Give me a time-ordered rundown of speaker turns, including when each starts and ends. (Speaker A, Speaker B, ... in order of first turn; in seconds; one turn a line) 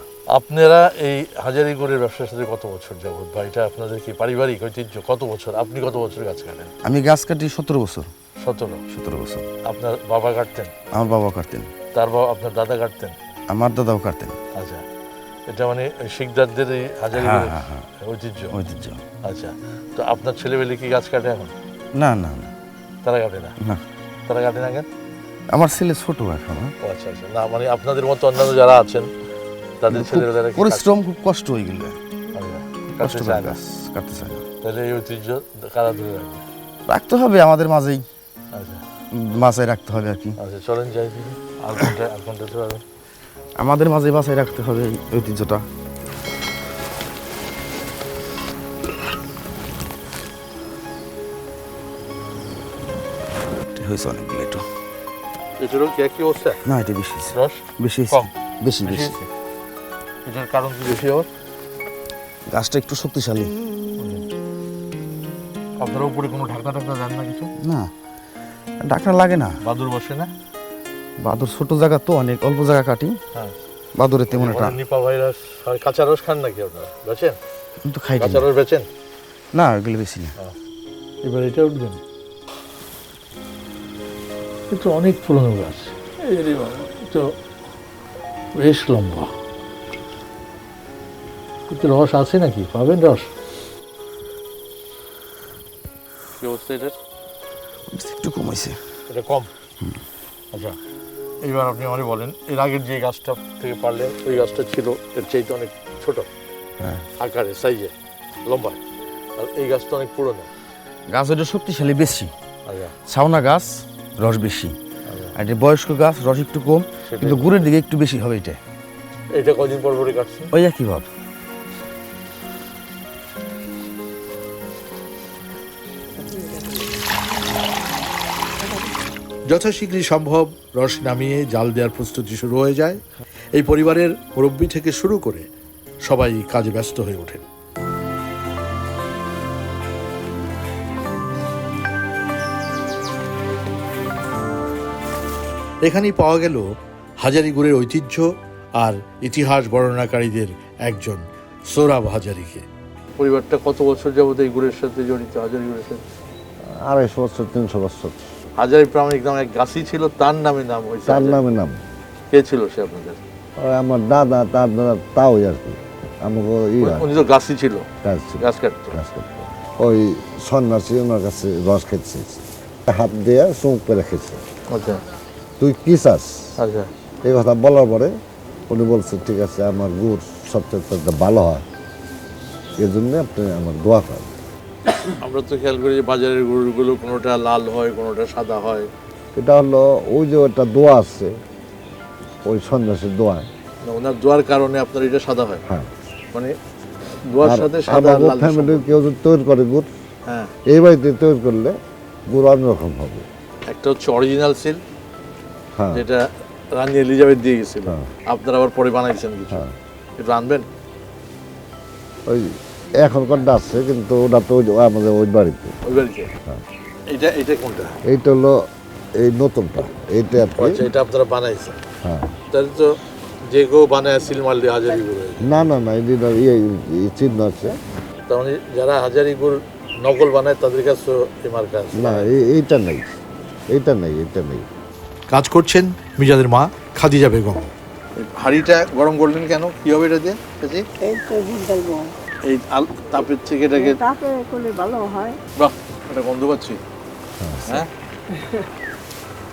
Speaker A: 0.3-6.7
Speaker B: 6.8-8.1
Speaker A: 8.4-8.8
Speaker B: 8.9-9.5
Speaker A: 9.7-10.7
Speaker B: 10.9-11.7
Speaker A: 11.9-13.2
Speaker B: 13.5-14.4
Speaker A: 14.6-14.8
Speaker A: 15.5-18.6
Speaker B: 17.1-17.9
Speaker B: 18.5-19.0
Speaker A: 19.2-21.5
Speaker B: 21.9-22.5
Speaker A: 23.1-23.5
Speaker A: 24.3-24.9
Speaker B: 25.5-26.7
Speaker A: 26.8-29.1
Speaker A: 29.8-30.9
Speaker B: 29.9-32.0
Speaker A: 32.4-33.6
Speaker B: 33.0-34.4
Speaker A: 34.6-36.4
Speaker B: 36.9-38.0
Speaker A: 38.5-38.8
Speaker B: 39.1-40.4
Speaker A: 40.4-42.8
Speaker B: 43.6-45.6
Speaker B: 53.8-54.6
Speaker A: 55.6-56.6
Speaker B: 56.6-59.2
Speaker A: 58.8-59.3
Speaker A: 60.3-61.3
Speaker B: 62.5-63.5
Speaker A: 65.8-67.5
Speaker B: 67.6-67.9
Speaker B: 68.8-69.6
Speaker A: 69.6-70.3
Speaker B: 71.2-73.2
Speaker B: 74.0-74.8
Speaker A: 74.3-77.4
Speaker B: 77.8-78.5
Speaker A: 78.2-78.9
Speaker B: 79.5-80.3
Speaker A: 81.2-82.0
Speaker A: 84.7-87.3
Speaker A: 88.6-89.3
Speaker A: 91.7-93.3
Speaker A: 96.4-97.0
Speaker B: 97.9-98.8
Speaker A: 99.1-99.5
Speaker A: 101.4-106.3
Speaker B: 106.8-107.0
Speaker A: 107.2-107.9
Speaker A: 108.5-108.8
Speaker A: 109.4-110.5
Speaker B: 111.1-112.3
Speaker A: 112.7-112.9
Speaker B: 113.1-114.8
Speaker B: 115.3-118.6
Speaker A: 117.1-117.6
Speaker A: 119.3-120.5
Speaker B: 120.5-121.1
Speaker A: 129.5-133.0
Speaker A: 133.6-135.5
Speaker A: 136.1-137.4
Speaker A: 145.8-146.6
Speaker A: 147.2-148.2
Speaker A: 148.8-152.6
Speaker A: 153.2-156.0
Speaker C: 156.8-158.2
Speaker A: 158.6-161.4
Speaker C: 161.1-161.8
Speaker A: 162.3-163.2
Speaker C: 163.6-167.1
Speaker A: 166.8-167.9
Speaker C: 168.0-172.3
Speaker A: 168.4-169.0
Speaker C: 172.9-174.4
Speaker A: 174.7-175.0
Speaker C: 175.6-176.5
Speaker A: 176.6-176.9
Speaker C: 177.2-178.1
Speaker C: 178.7-181.6
Speaker C: 182.8-184.3
Speaker A: 185.2-188.9
Speaker C: 189.4-191.3
Speaker C: 192.4-193.5
Speaker A: 193.8-195.7
Speaker A: 197.3-198.8
Speaker C: 197.4-199.9
Speaker C: 200.7-201.8
Speaker C: 202.3-203.3
Speaker A: 203.7-204.8
Speaker C: 205.8-206.1
Speaker A: 205.9-206.2
Speaker A: 206.7-209.6
Speaker A: 210.2-210.7
Speaker C: 212.3-215.8
Speaker A: 215.9-216.3
Speaker A: 217.1-217.9
Speaker C: 218.1-218.6
Speaker C: 219.2-220.8
Speaker A: 220.6-221.8
Speaker C: 222.0-222.3
Speaker A: 222.5-222.9
Speaker A: 223.5-225.7
Speaker C: 225.4-227.8
Speaker A: 228.3-232.3
Speaker C: 231.9-233.0
Speaker C: 233.7-234.7
Speaker A: 235.3-240.8
Speaker D: 241.0-242.1
Speaker A: 242.5-244.0
Speaker D: 243.7-245.4
Speaker A: 245.6-246.8
Speaker C: 247.4-247.8